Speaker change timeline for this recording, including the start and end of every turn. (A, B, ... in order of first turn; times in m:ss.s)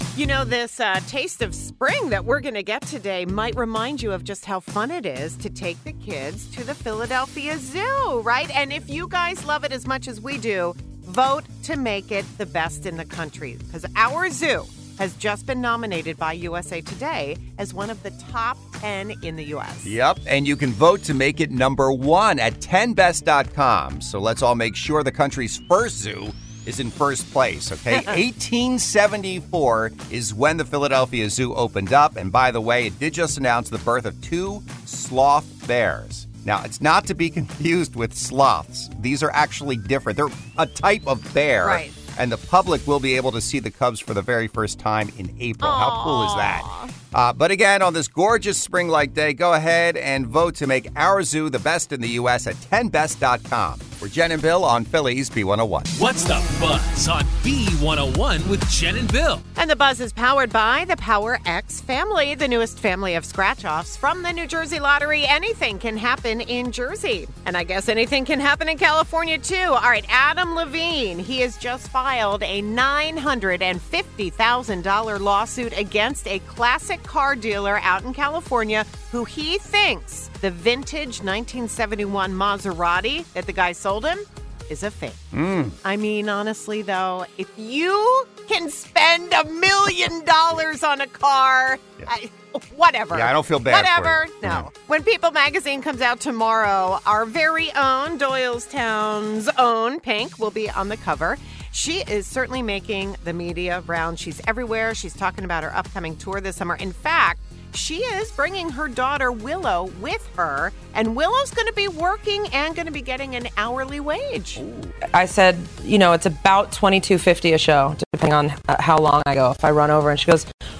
0:00.2-0:20.0 A
0:19.8-0:55.9 B
0:41.6-0:42.0 A
0:45.6-0:46.9 A
0:55.9-0:59.4 C
0:59.6-1:25.2 A
1:25.3-1:25.8 B
1:25.8-1:54.6 A
1:33.1-1:34.7 B
1:54.6-1:54.9 B
1:55.1-2:00.5 D